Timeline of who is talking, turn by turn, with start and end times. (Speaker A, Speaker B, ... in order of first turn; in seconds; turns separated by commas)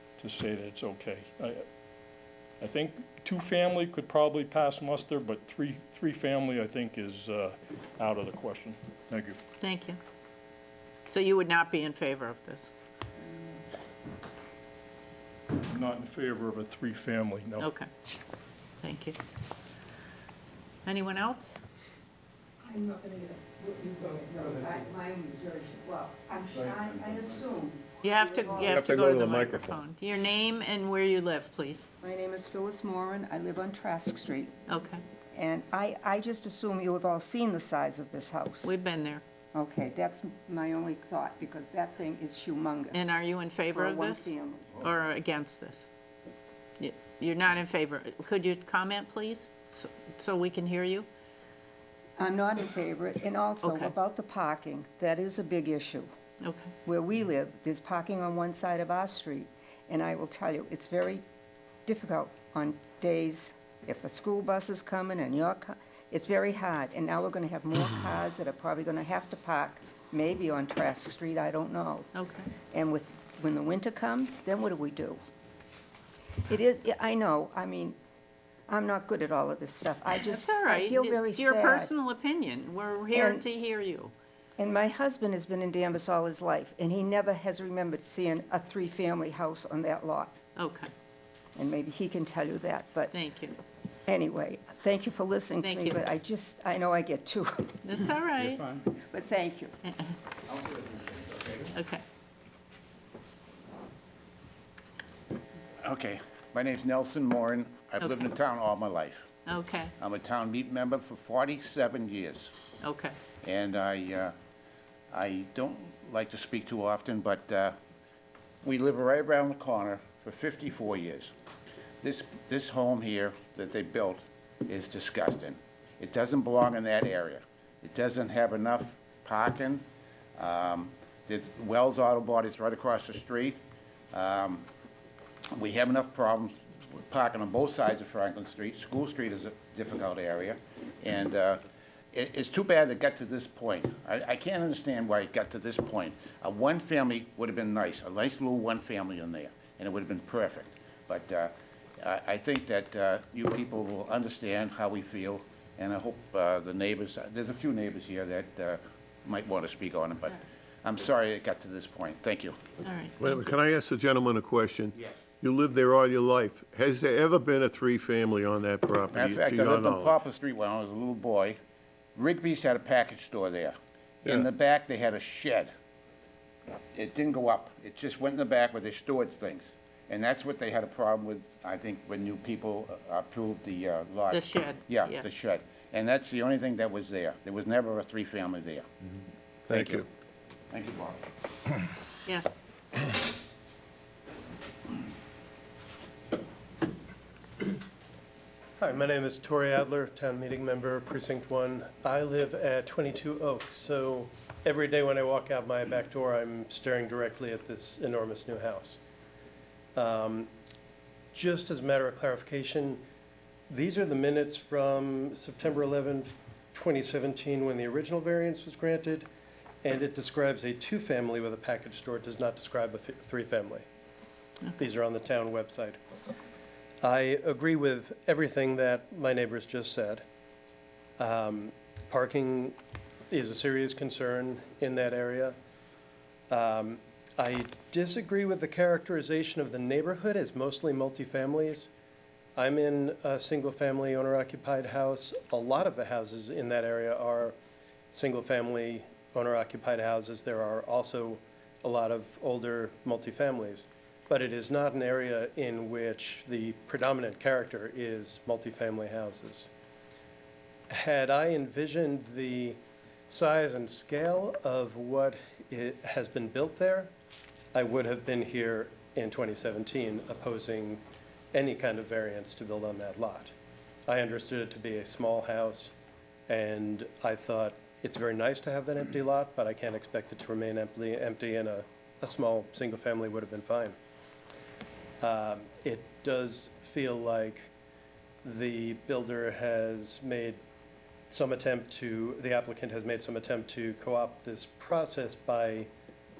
Speaker A: 0.2-1.6, Speaker A: 2.6-9.4, Speaker B: 9.6-10.0, Speaker B: 11.1-12.7, Speaker A: 15.6-17.7, Speaker B: 17.6-17.9, Speaker B: 18.8-19.2, Speaker B: 20.9-21.6, Speaker C: 22.6-28.9, Speaker B: 28.0-31.9, Speaker D: 28.7-29.8, Speaker C: 32.0-34.5, Speaker B: 34.7-35.0, Speaker C: 35.3-38.7, Speaker B: 38.6-39.2, Speaker C: 39.5-43.1, Speaker B: 42.9-45.9, Speaker C: 43.7-44.8, Speaker B: 46.8-51.1, Speaker C: 52.2-56.1, Speaker B: 53.6-53.9, Speaker B: 56.4-56.7, Speaker C: 56.8-61.2, Speaker C: 61.9-72.1, Speaker B: 72.1-72.5, Speaker C: 72.7-75.2, Speaker C: 76.5-78.0, Speaker C: 78.7-81.9, Speaker B: 80.2-84.1, Speaker C: 83.1-83.4, Speaker C: 84.6-90.3, Speaker B: 90.5-90.9, Speaker C: 91.5-93.1, Speaker B: 93.1-93.6, Speaker C: 94.1-97.8, Speaker B: 95.6-96.1, Speaker B: 97.8-98.7, Speaker C: 98.9-99.7, Speaker B: 99.8-100.2, Speaker B: 101.7-102.0, Speaker E: 105.8-109.3, Speaker B: 108.0-108.2, Speaker B: 109.5-109.9, Speaker E: 110.0-112.5, Speaker B: 112.8-113.1, Speaker E: 113.4-114.3, Speaker E: 115.1-117.7, Speaker E: 118.6-121.3, Speaker E: 122.0-129.8, Speaker E: 130.4-133.6, Speaker E: 134.1-134.7, Speaker E: 135.6-162.6, Speaker B: 162.8-163.1, Speaker D: 163.2-170.2, Speaker E: 169.1-171.6, Speaker E: 172.2-175.7, Speaker E: 176.9-188.9, Speaker B: 184.3-185.2, Speaker D: 189.7-190.1, Speaker E: 189.7-190.0, Speaker E: 190.7-191.2, Speaker B: 192.3-192.6, Speaker F: 198.8-209.0, Speaker F: 209.9-210.5, Speaker F: 211.3-213.0, Speaker F: 213.7-219.3, Speaker F: 219.8-223.8, Speaker F: 224.8-226.0, Speaker F: 227.0-230.2, Speaker F: 231.2-232.8, Speaker F: 233.3-235.5, Speaker F: 236.5-241.9, Speaker F: 242.6-247.5, Speaker F: 248.1-259.7, Speaker F: 260.9-262.8, Speaker F: 263.3-267.1, Speaker F: 267.7-271.0, Speaker F: 271.5-273.5, Speaker F: 274.1-275.9, Speaker F: 276.5-283.9, Speaker F: 285.2-287.7, Speaker F: 288.4-290.6, Speaker F: 291.3-295.9